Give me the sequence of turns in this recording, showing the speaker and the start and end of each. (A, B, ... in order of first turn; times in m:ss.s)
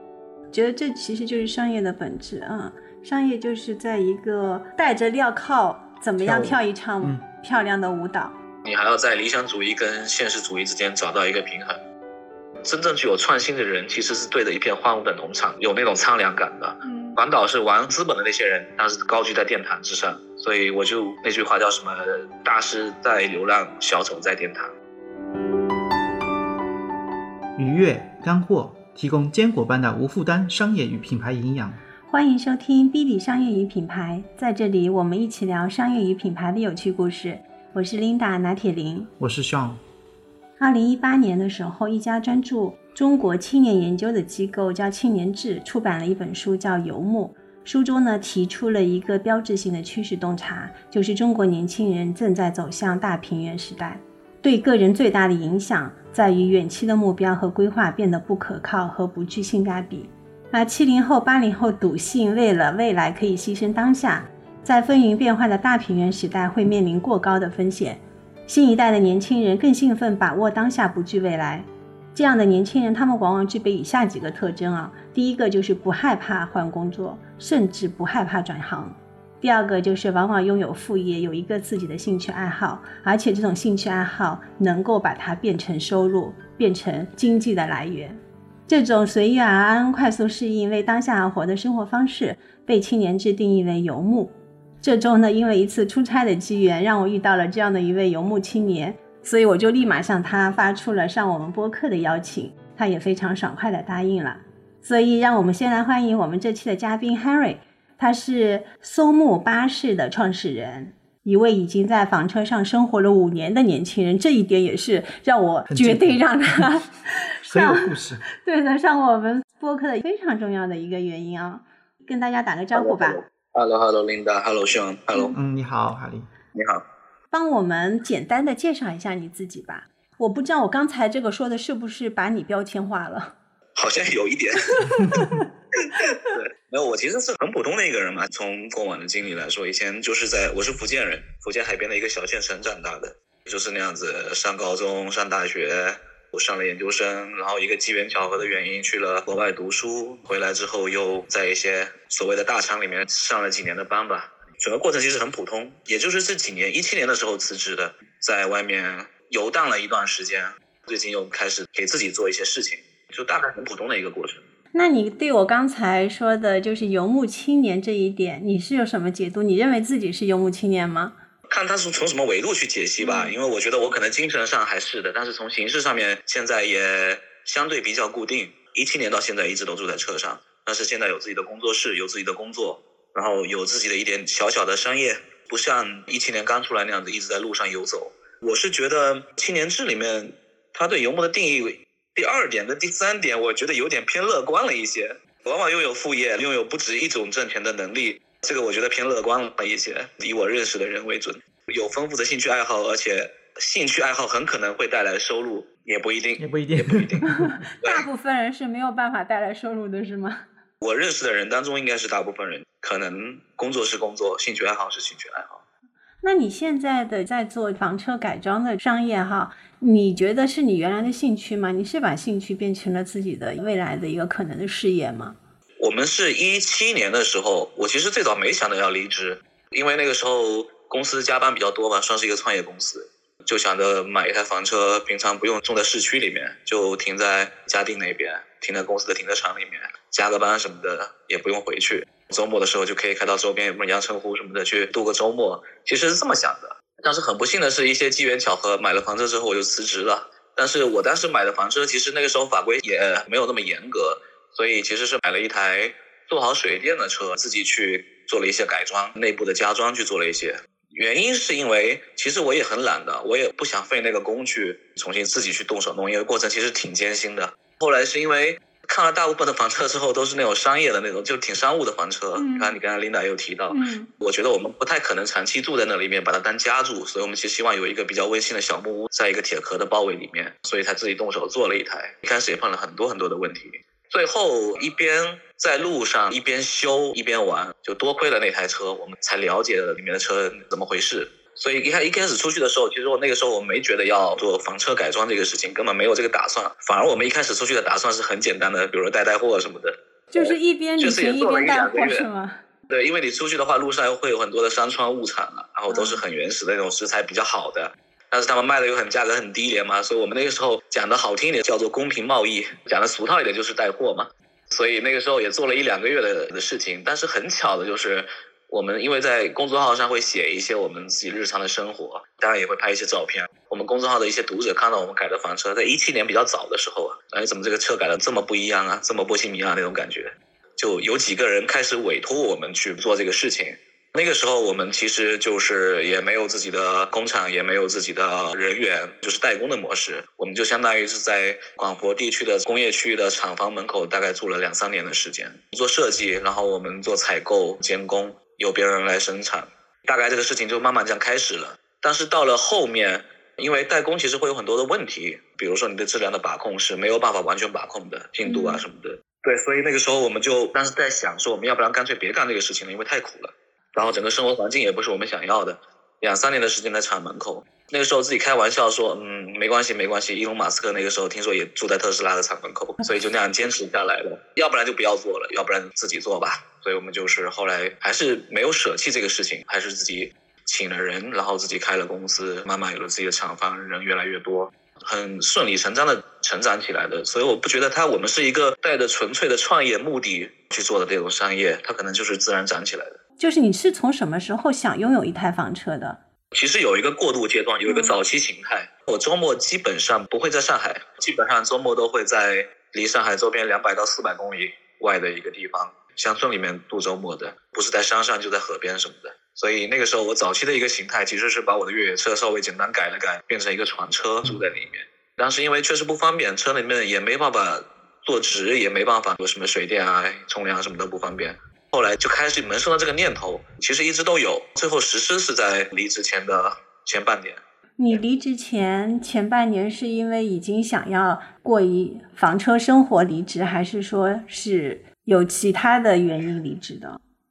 0:00.5-0:08.3 A
0:06.2-0:07.2 B
0:08.6-0:11.8 C
0:12.6-0:24.7 C
0:16.8-0:17.2 A
0:27.6-0:31.8 B
0:32.1-0:39.1 A
0:39.2-0:39.8 B
0:40.6-2:03.2 A
1:55.7-1:56.6 B
1:57.5-1:58.2 B
2:02.7-2:05.3 C
2:05.3-2:06.3 B
2:06.6-2:06.8 C
2:07.3-2:13.3 A
2:13.8-2:14.8 C
2:14.8-2:15.4 A
2:15.9-2:44.4 C
2:44.7-2:51.2 A
2:51.5-3:27.3 C
2:53.0-2:53.4 A
3:26.4-3:27.6 B
3:27.3-3:30.4 A
3:30.8-3:35.6 C
3:36.2-3:45.4 A
3:45.8-5:02.2 C
4:32.4-4:32.7 A
4:33.7-4:34.1 A
5:00.3-5:02.6 A
5:02.9-6:33.2 C
5:05.9-5:06.2 A
5:58.4-5:58.8 A
6:33.4-6:36.2 A
6:36.5-7:07.6 C
6:37.9-6:38.2 A
7:08.0-7:17.2 A